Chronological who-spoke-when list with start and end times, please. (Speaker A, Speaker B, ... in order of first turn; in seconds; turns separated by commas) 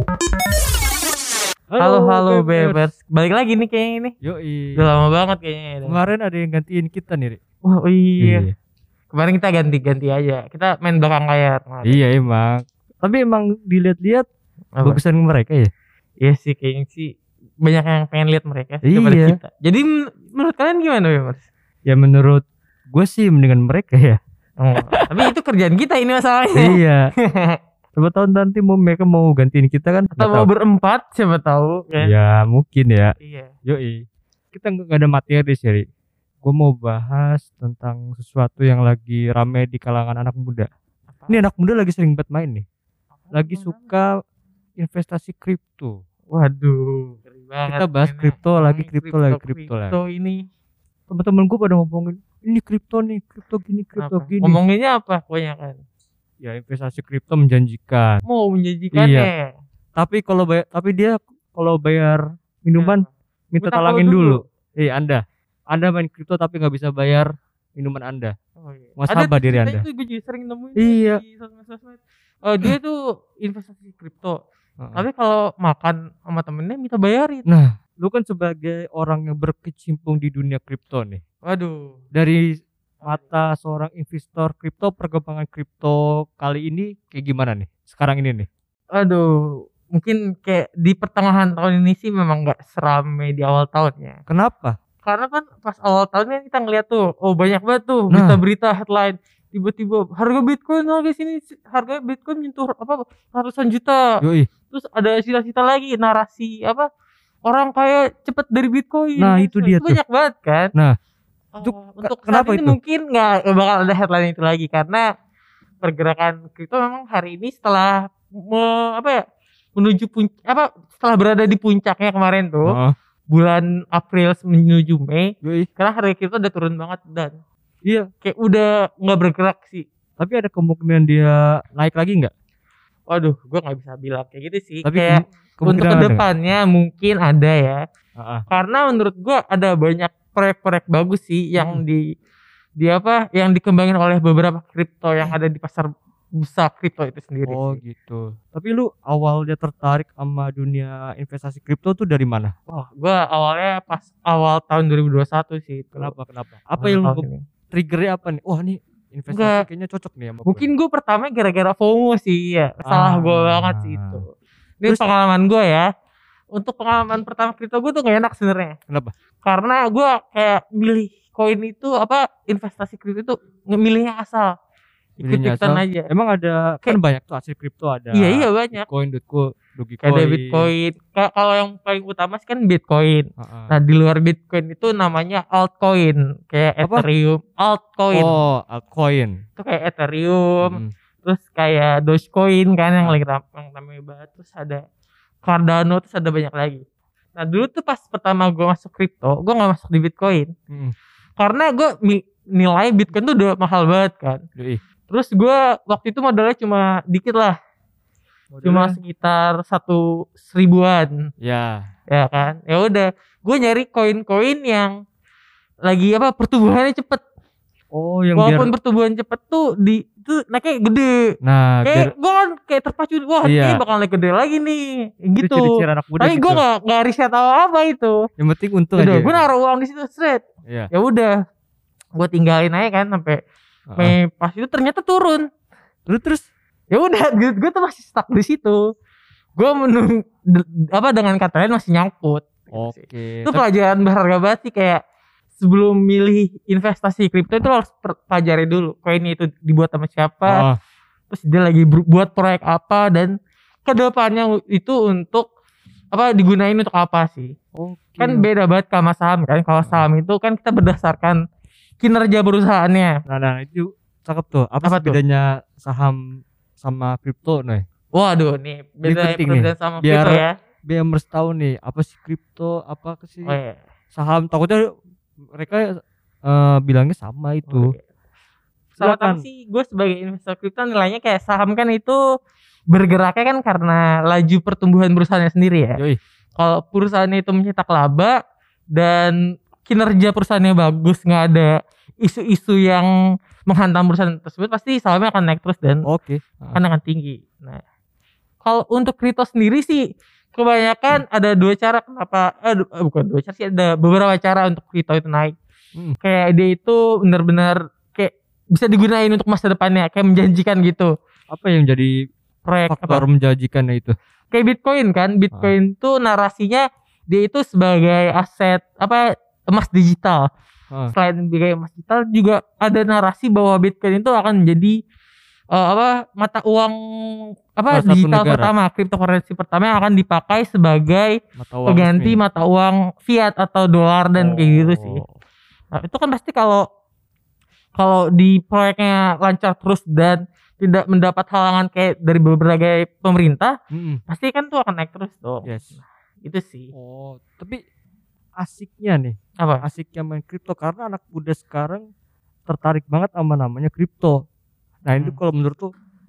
Speaker A: 1.7-2.9, Speaker B: 1.8-4.1, Speaker A: 4.2-4.7, Speaker B: 4.8-6.0, Speaker A: 5.8-7.4, Speaker B: 7.7-8.4, Speaker A: 8.2-8.5, Speaker B: 9.1-12.0, Speaker A: 11.8-14.2, Speaker B: 14.7-15.0, Speaker A: 14.8-15.7, Speaker B: 16.2-21.4, Speaker A: 18.8-19.4, Speaker A: 21.9-24.2, Speaker B: 24.6-26.8, Speaker A: 24.9-25.2, Speaker A: 26.6-27.0, Speaker B: 27.3-27.6, Speaker A: 27.9-30.5, Speaker B: 30.1-32.1, Speaker A: 32.0-33.1, Speaker B: 33.2-33.5, Speaker A: 33.6-35.8, Speaker A: 36.4-40.7, Speaker B: 41.1-41.4, Speaker A: 41.3-42.6, Speaker B: 43.1-43.9, Speaker A: 43.3-44.0, Speaker A: 44.8-45.9, Speaker B: 46.3-50.4, Speaker A: 47.7-50.0, Speaker A: 51.1-54.6, Speaker B: 54.0-55.8, Speaker A: 56.4-58.2, Speaker B: 58.2-59.5, Speaker A: 58.9-59.3, Speaker A: 60.0-68.3, Speaker B: 62.8-63.1, Speaker B: 63.6-64.4, Speaker B: 68.6-74.4, Speaker A: 69.0-69.8, Speaker A: 70.8-71.2, Speaker A: 74.8-75.0, Speaker B: 74.9-77.4, Speaker A: 77.5-81.2, Speaker B: 81.4-82.0, Speaker A: 82.1-82.4, Speaker A: 83.0-88.5, Speaker B: 88.9-94.2, Speaker A: 94.3-94.7, Speaker B: 95.0-104.0, Speaker A: 98.1-98.4, Speaker A: 104.2-104.5, Speaker B: 104.7-106.9, Speaker B: 107.4-110.7, Speaker A: 109.2-110.0, Speaker B: 111.5-115.0, Speaker A: 111.6-112.8, Speaker B: 115.8-119.2, Speaker B: 119.8-122.7, Speaker A: 122.7-123.0, Speaker B: 123.3-127.3, Speaker A: 125.4-125.7, Speaker B: 128.2-129.8, Speaker A: 130.2-132.3, Speaker B: 133.1-137.8, Speaker A: 134.8-136.3, Speaker A: 138.2-138.4, Speaker B: 138.5-142.0, Speaker B: 142.8-147.8, Speaker A: 147.5-152.5, Speaker B: 152.7-156.1, Speaker A: 155.9-160.7, Speaker B: 156.8-157.4, Speaker B: 159.3-159.6, Speaker B: 160.4-164.3, Speaker A: 162.8-164.2, Speaker B: 164.8-165.8, Speaker B: 166.5-168.8, Speaker B: 169.4-174.5, Speaker A: 175.2-180.7, Speaker B: 175.2-176.1, Speaker B: 178.1-178.8, Speaker B: 180.0-188.3, Speaker A: 183.4-183.7, Speaker A: 188.1-189.4, Speaker B: 189.6-194.8, Speaker A: 190.6-190.9, Speaker B: 195.4-196.8, Speaker B: 197.3-200.5, Speaker A: 200.7-200.9, Speaker B: 201.4-204.4, Speaker A: 204.6-204.8, Speaker B: 205.1-207.6, Speaker A: 208.5-209.0, Speaker B: 208.6-211.2, Speaker A: 211.4-211.9, Speaker B: 212.1-214.9, Speaker B: 215.8-217.2, Speaker A: 217.9-218.7, Speaker B: 218.3-221.1, Speaker A: 221.4-222.1, Speaker B: 221.8-228.2, Speaker A: 223.4-223.8, Speaker A: 225.4-226.6, Speaker A: 228.4-229.5, Speaker B: 229.0-231.3, Speaker B: 232.2-233.4, Speaker A: 233.9-234.2, Speaker B: 234.0-235.4, Speaker A: 236.1-236.4, Speaker B: 236.9-238.8, Speaker B: 239.6-245.0, Speaker A: 242.7-243.6, Speaker B: 245.6-250.6, Speaker A: 250.4-250.8, Speaker B: 251.3-253.3, Speaker B: 253.8-255.4, Speaker B: 256.1-257.5, Speaker A: 257.8-258.5, Speaker B: 258.2-261.4, Speaker B: 262.0-263.1, Speaker A: 263.3-266.2, Speaker B: 264.8-265.2, Speaker A: 266.8-267.8, Speaker B: 268.1-270.5, Speaker A: 269.0-273.6, Speaker B: 273.4-273.8, Speaker A: 274.1-274.8, Speaker A: 275.5-277.9, Speaker B: 277.7-278.0, Speaker A: 278.9-279.4, Speaker B: 279.0-282.2, Speaker B: 282.9-286.0, Speaker B: 286.6-288.3, Speaker B: 288.9-291.7, Speaker B: 292.2-293.1, Speaker B: 293.7-296.0, Speaker A: 296.1-296.8, Speaker B: 296.7-297.8, Speaker B: 298.6-300.0, Speaker B: 300.5-305.6, Speaker B: 306.2-311.1, Speaker A: 311.5-312.1, Speaker B: 312.6-313.2, Speaker A: 312.9-314.1, Speaker B: 314.5-320.4, Speaker B: 321.1-324.9, Speaker B: 325.7-326.9, Speaker B: 327.8-331.3, Speaker A: 327.9-328.7, Speaker A: 331.6-332.4, Speaker B: 331.9-335.2, Speaker A: 334.4-335.4, Speaker B: 335.9-336.8, Speaker B: 337.9-343.7, Speaker A: 343.9-344.2, Speaker B: 344.3-345.7, Speaker A: 345.6-346.0, Speaker B: 346.4-346.9, Speaker A: 346.9-347.8, Speaker A: 348.6-352.0, Speaker A: 352.7-354.4, Speaker A: 355.0-355.9